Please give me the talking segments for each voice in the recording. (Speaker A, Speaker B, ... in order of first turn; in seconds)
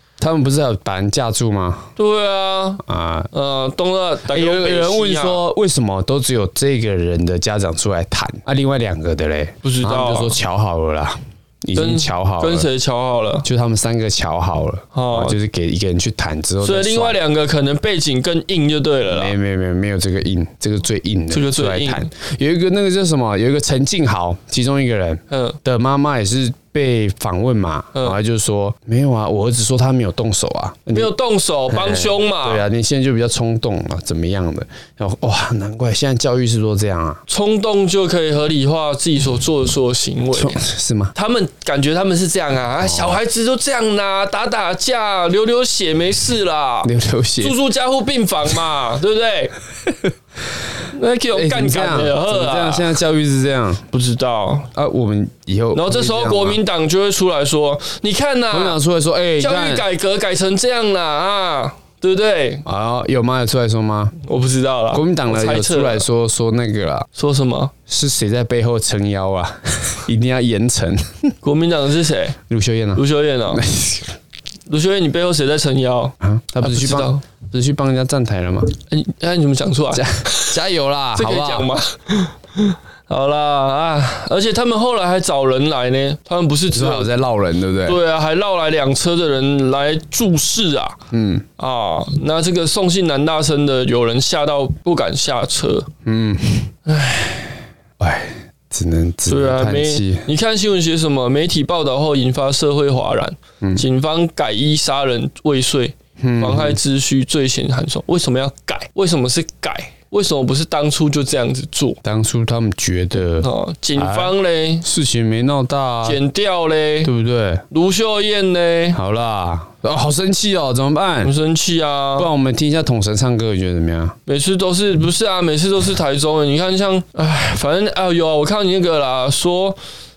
Speaker A: 0.2-1.9, 2.8-3.3, 4.3-12.7, 13.4-17.2, 19.1-31.1, 31.7-37.2, 40.3-41.1, 42.8-43.2, 46.8-47.6, 51.3-53.9, 54.7-56.6, 58.5-59.9, 62.6-64.2, 64.9-67.1, 67.9-71.3, 72.5-74.2, 76.2-78.7, 79.9-81.7, 86.7-88.0, 91.1-91.5, 96.0-96.7, 98.0-100.3, 106.2-106.8, 112.0-116.2, 117.0-117.6, 118.9-121.3, 122.2-124.2
Speaker B: 2.0-5.4, 9.6-10.4, 11.8-13.5, 14.9-15.4, 16.6-19.3, 21.3-22.1, 25.3-25.6, 30.9-32.6, 37.3-40.6, 41.1-49.5, 50.9-53.0, 53.9-54.7, 55.7-58.8, 59.4-62.6, 64.3-66.0, 67.2-67.7, 71.4-72.4, 73.0-73.6, 74.7-77.2, 78.9-80.6, 81.2-87.1, 87.9-91.0, 91.6-95.9, 96.9-97.6, 99.3-112.0, 113.4-114.9, 116.0-117.1, 117.7-119.0, 121.2-122.3, 124.3-129.8